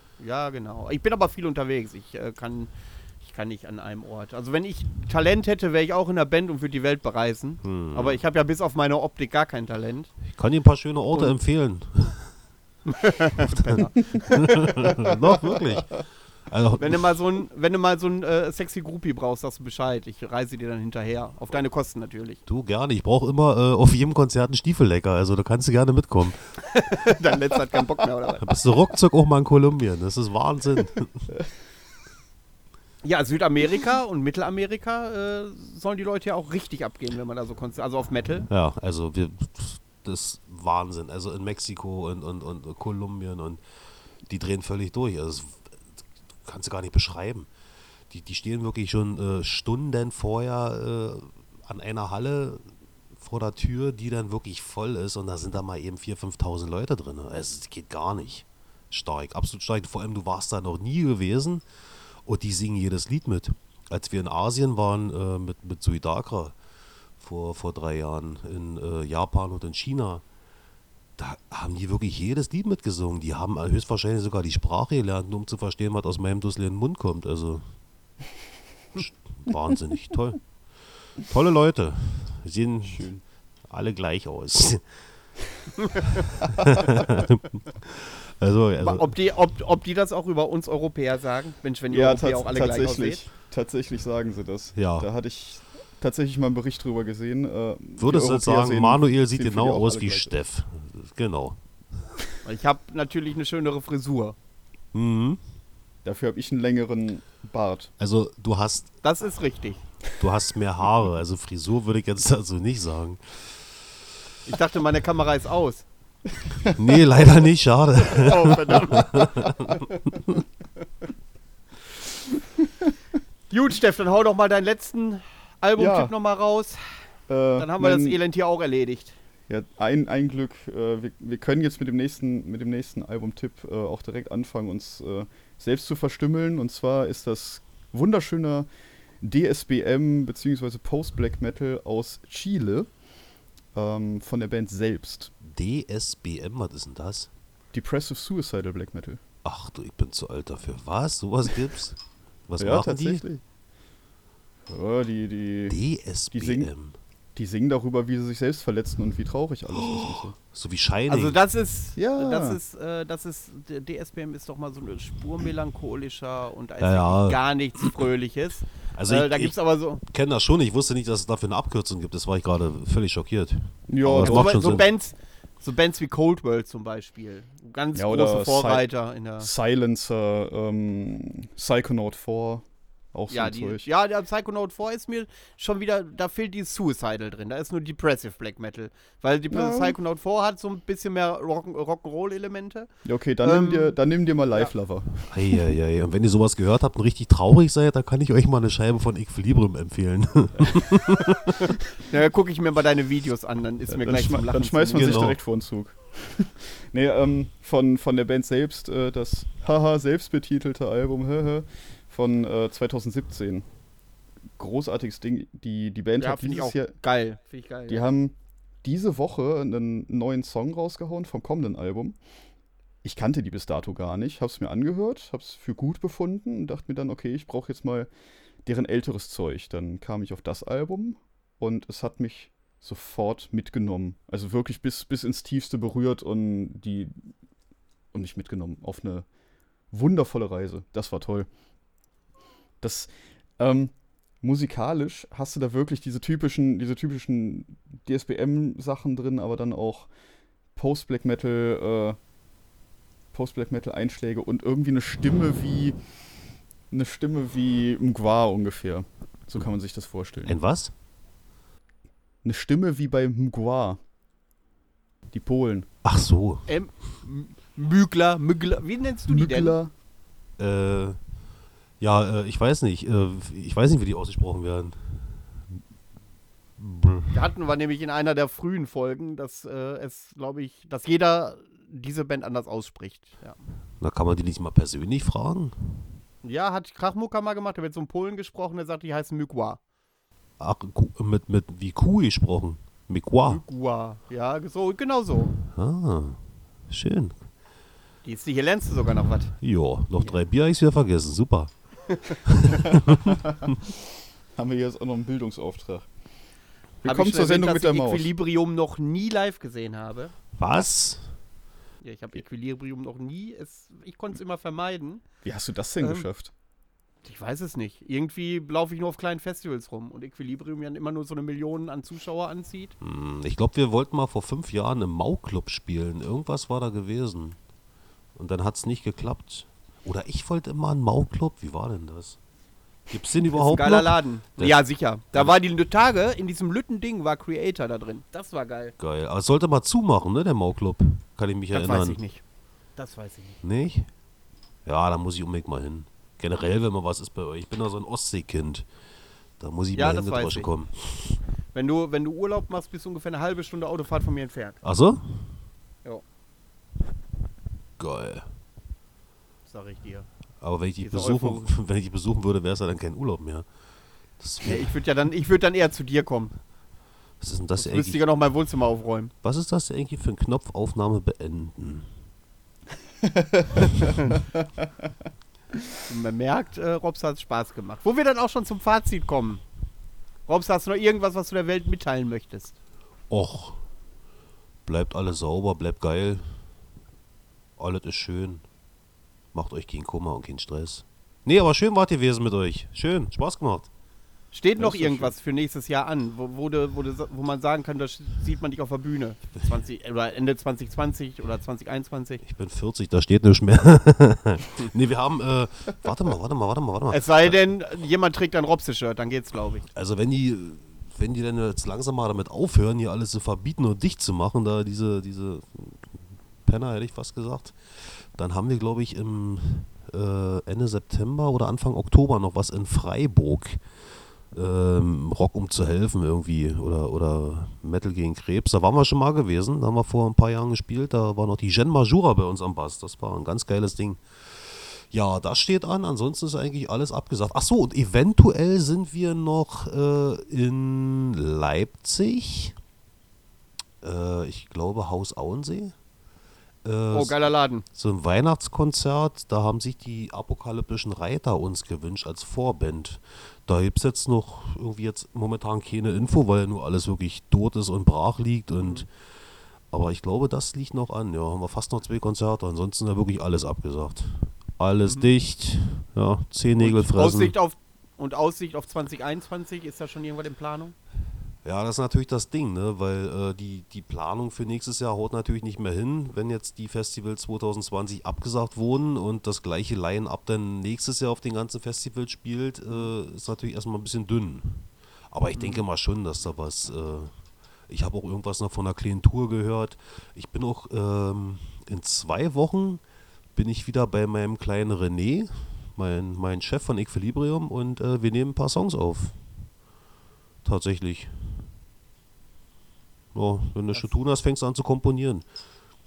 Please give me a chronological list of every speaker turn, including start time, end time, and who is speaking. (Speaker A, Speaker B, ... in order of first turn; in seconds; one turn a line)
Speaker A: 0.2-10.1
Speaker B: 7.6-8.2
Speaker B: 10.3-12.3
Speaker A: 12.9-14.9
Speaker B: 13.4-17.1
Speaker A: 16.8-22.4
Speaker B: 22.4-26.7
Speaker A: 26.7-28.5
Speaker B: 28.4-31.3
Speaker A: 33.0-38.5
Speaker B: 38.5-43.6
Speaker B: 44.2-47.5
Speaker B: 48.1-61.6
Speaker B: 62.2-66.5
Speaker B: 67.2-70.2
Speaker B: 71.2-77.7
Speaker B: 78.9-80.5
Speaker B: 81.2-83.1
Speaker C: 82.8-83.2
Speaker B: 83.7-85.0
Speaker A: 85.8-86.2
Speaker B: 86.4-89.2
Speaker A: 88.8-93.2
Speaker C: 91.9-100.3
Speaker B: 94.7-95.1
Speaker B: 98.0-101.6
Speaker A: 102.4-104.3
Speaker B: 104.9-105.4
Speaker C: 106.0-107.9
Speaker B: 108.0-108.9
Speaker A: 109.0-109.8
Speaker B: 110.2-113.7
Speaker A: 114.5-115.8
Speaker B: 116.7-120.4
Speaker A: 118.1-119.8
Speaker A: 123.5-127.0
Speaker C: 125.8-126.1
Speaker C: 127.3-128.2
Speaker A: 127.6-129.1
Speaker C: 129.5-138.7
Speaker C: 139.2-142.9
Speaker C: 143.7-145.3
Speaker B: 145.4-147.3
Speaker C: 147.7-149.2
Speaker B: 149.4-153.2
Speaker C: 152.6-153.4
Speaker C: 154.7-155.8
Speaker B: 155.7-156.9
Speaker C: 156.3-156.7
Speaker C: 157.3-160.3
Speaker B: 159.7-161.4
Speaker A: 161.1-170.0
Speaker C: 161.9-162.6
Speaker B: 166.8-168.1
Speaker B: 168.9-174.8
Speaker C: 173.9-174.6
Speaker A: 174.2-179.5
Speaker C: 177.9-183.9
Speaker A: 183.3-192.9
Speaker C: 189.5-189.9
Speaker C: 193.0-195.6
Speaker A: 193.4-194.0
Speaker B: 195.3-201.8
Speaker A: 202.0-205.3
Speaker C: 203.9-213.7
Speaker B: 204.9-205.4
Speaker C: 214.6-216.9
Speaker A: 216.2-218.1
Speaker C: 217.9-222.2
Speaker C: 223.0-228.1
Speaker C: 228.6-237.3
Speaker C: 238.1-239.2
Speaker C: 239.9-241.5
Speaker C: 242.8-250.1
Speaker C: 250.7-252.2
Speaker C: 253.3-256.0
Speaker C: 256.9-260.6
Speaker B: 260.4-260.9
Speaker C: 262.4-264.0
Speaker C: 265.3-265.9
Speaker B: 266.0-266.7
Speaker A: 266.7-269.8
Speaker C: 269.3-269.9
Speaker B: 270.6-271.2
Speaker B: 272.0-275.8
Speaker B: 276.8-277.4
Speaker A: 277.3-283.6
Speaker B: 284.0-286.1
Speaker A: 286.4-289.8
Speaker B: 290.6-293.6
Speaker A: 293.5-295.5
Speaker B: 295.6-297.4
Speaker A: 298.2-299.5
Speaker B: 299.6-301.7
Speaker B: 302.4-303.4
Speaker C: 304.5-306.1
Speaker A: 307.0-310.3
Speaker C: 307.0-308.3
Speaker B: 310.6-311.4
Speaker A: 312.0-315.2
Speaker C: 315.4-316.5
Speaker A: 316.0-316.3
Speaker A: 317.2-322.9
Speaker B: 323.0-327.6
Speaker B: 328.4-332.4
Speaker B: 333.1-335.5
Speaker A: 333.5-338.9
Speaker B: 339.0-342.2
Speaker A: 341.7-342.4
Speaker A: 343.0-343.6
Speaker B: 343.6-344.1
Speaker B: 344.8-348.9
Speaker B: 349.6-351.4
Speaker A: 349.9-350.7
Speaker A: 351.7-354.8
Speaker B: 354.8-355.6
Speaker B: 358.0-358.5
Speaker A: 359.7-360.3
Speaker B: 360.6-363.6
Speaker A: 361.0-361.7
Speaker B: 364.4-364.9
Speaker A: 364.6-366.6
Speaker B: 367.4-368.2
Speaker A: 367.8-369.3
Speaker B: 369.4-372.1
Speaker C: 373.2-373.7
Speaker A: 376.1-379.6
Speaker A: 380.5-382.8
Speaker B: 383.3-383.8
Speaker B: 384.9-386.6
Speaker B: 387.8-388.6
Speaker B: 389.5-393.9
Speaker A: 394.5-402.4
Speaker B: 402.4-407.6
Speaker A: 407.1-409.9
Speaker B: 409.9-423.8
Speaker B: 424.5-442.7
Speaker B: 444.0-445.9
Speaker B: 446.8-459.1
Speaker A: 447.1-447.8
Speaker B: 459.9-467.5
Speaker A: 466.8-470.9
Speaker B: 471.6-487.3
Speaker A: 485.6-485.8
Speaker B: 487.9-493.0
Speaker B: 493.5-499.4
Speaker B: 500.6-501.7
Speaker B: 503.3-505.4